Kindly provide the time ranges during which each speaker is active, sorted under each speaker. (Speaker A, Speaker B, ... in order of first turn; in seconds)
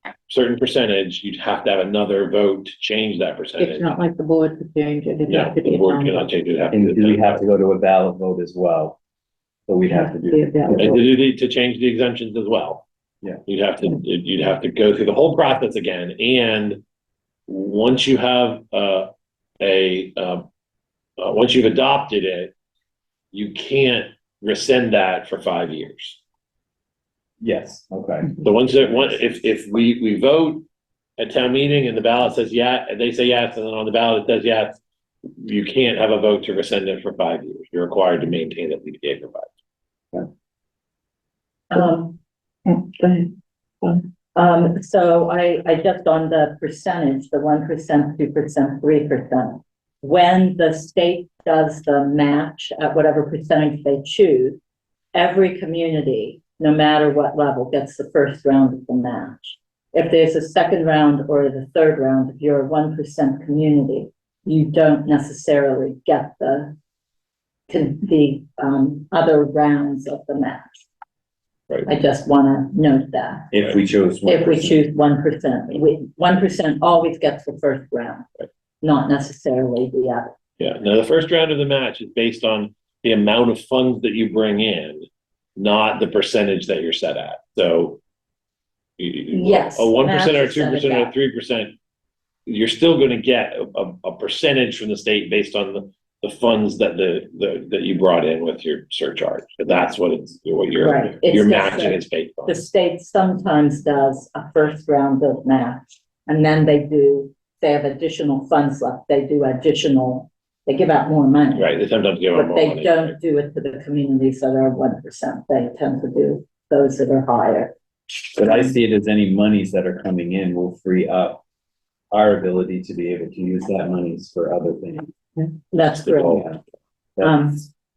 Speaker A: 0.3-4.0, 5.3-7.4, 10.7-12.9, 13.5-16.8, 17.5-20.5, 21.2-22.5, 23.3-26.2, 28.4-30.6, 31.2-34.8, 35.4-39.5, 80.6-88.0, 89.0-91.8, 92.5-102.6, 111.6-113.2, 126.1-126.4
Speaker B: 3.6-6.3, 9.9-11.0, 42.7-43.3
Speaker C: 6.7-9.0, 9.7-11.0, 27.4-29.1, 73.5-74.8, 118.3-121.4, 122.1-125.1, 126.3-126.6, 127.2-127.5
Speaker D: 41.7-42.2, 44.4-54.6, 55.1-66.7, 67.7-70.9, 71.9-73.5, 74.3-78.3, 78.8-80.3, 89.3-91.1, 100.8-111.8, 112.3-117.7, 125.7-126.5, 127.2-127.7